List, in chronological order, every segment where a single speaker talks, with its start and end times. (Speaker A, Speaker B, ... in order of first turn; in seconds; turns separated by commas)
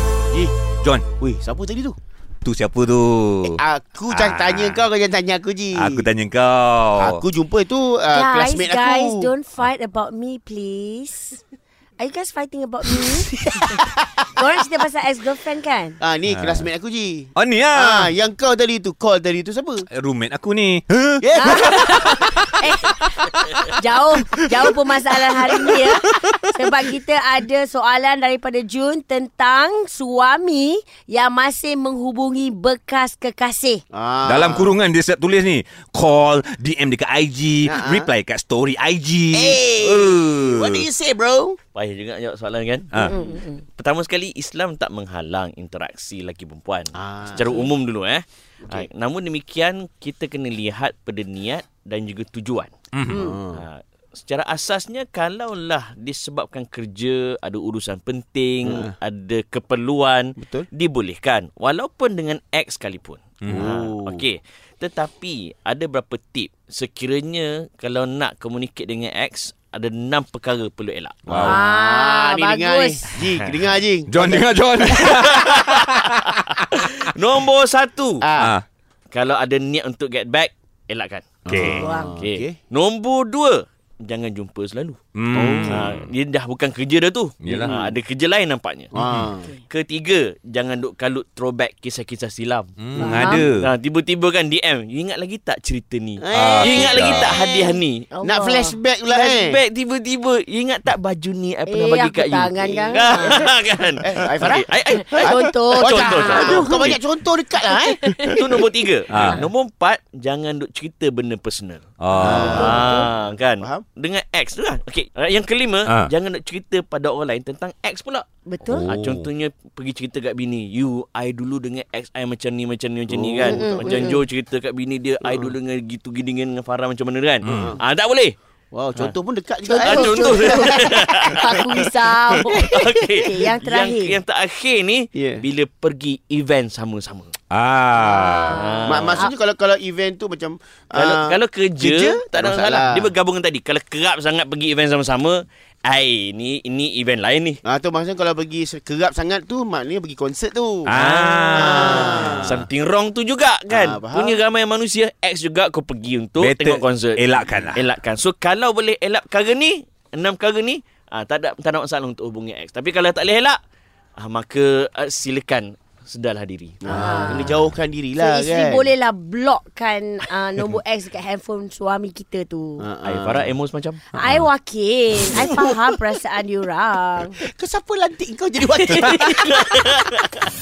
Speaker A: 1.2-2.0, Speaker B: 2.4-4.8, Speaker A: 3.5-6.1, Speaker B: 5.7-7.2, Speaker A: 7.0-9.3, Speaker C: 8.1-11.4, Speaker C: 12.0-16.0, Speaker A: 16.0-19.9, Speaker B: 16.3-16.7, Speaker B: 17.3-18.1, Speaker B: 19.9-21.8, Speaker A: 21.2-22.2, Speaker C: 21.4-33.8, Speaker A: 33.9-34.8, Speaker B: 34.2-40.9, Speaker A: 37.6-38.1, Speaker A: 39.3-41.6, Speaker D: 41.7-52.7, Speaker C: 43.0-43.6, Speaker A: 46.9-47.7, Speaker B: 52.9-53.2, Speaker C: 53.1-53.4, Speaker A: 53.1-53.6, Speaker D: 53.5-71.5, Speaker A: 58.6-58.9, Speaker A: 60.4-60.7, Speaker B: 63.4-63.7, Speaker A: 63.5-64.2, Speaker B: 71.3-71.6, Speaker A: 71.3-75.1, Speaker C: 71.4-73.0, Speaker D: 73.3-73.8, Speaker B: 74.1-76.4, Speaker D: 74.9-78.3, Speaker A: 78.2-78.5, Speaker B: 78.4-78.6, Speaker D: 79.1-81.5, Speaker A: 81.5-82.5, Speaker B: 81.5-81.9, Speaker C: 81.6-82.2, Speaker D: 82.2-85.0, Speaker B: 85.1-86.1, Speaker A: 85.3-85.8, Speaker D: 85.6-88.9, Speaker B: 87.4-87.7, Speaker A: 87.6-87.9, Speaker A: 88.9-89.5, Speaker B: 89.0-89.3, Speaker D: 89.7-98.0, Speaker B: 92.8-93.7, Speaker C: 93.0-93.5, Speaker A: 96.2-99.6, Speaker B: 96.3-97.4, Speaker C: 98.1-98.8, Speaker D: 99.1-107.0, Speaker C: 101.7-103.4, Speaker A: 102.6-103.4, Speaker A: 104.0-108.5, Speaker C: 105.0-106.9, Speaker C: 107.8-108.4, Speaker D: 108.2-118.2, Speaker B: 109.1-109.5, Speaker B: 112.0-112.8, Speaker A: 112.2-113.8, Speaker C: 112.2-113.1, Speaker C: 118.5-118.9, Speaker B: 118.7-119.3, Speaker D: 118.8-128.3, Speaker A: 123.1-124.2, Speaker C: 123.4-124.2, Speaker A: 125.2-125.5, Speaker B: 127.4-127.8, Speaker A: 127.5-127.8, Speaker A: 128.7-131.6, Speaker C: 129.7-134.2, Speaker D: 129.8-137.3, Speaker A: 135.1-135.4, Speaker B: 137.5-138.6, Speaker C: 137.9-139.3, Speaker D: 138.5-139.3, Speaker A: 138.8-143.1, Speaker D: 140.9-147.6, Speaker A: 147.6-150.9, Speaker D: 150.8-163.6, Speaker B: 150.9-152.6, Speaker A: 151.5-152.5, Speaker A: 153.7-154.4, Speaker B: 156.4-157.8, Speaker D: 164.2-167.6, Speaker A: 166.8-168.9, Speaker C: 166.9-167.5, Speaker C: 168.2-172.9, Speaker A: 172.8-173.5, Speaker D: 173.0-174.1, Speaker C: 174.1-177.4, Speaker D: 175.3-175.9, Speaker A: 177.4-179.6, Speaker D: 178.7-180.5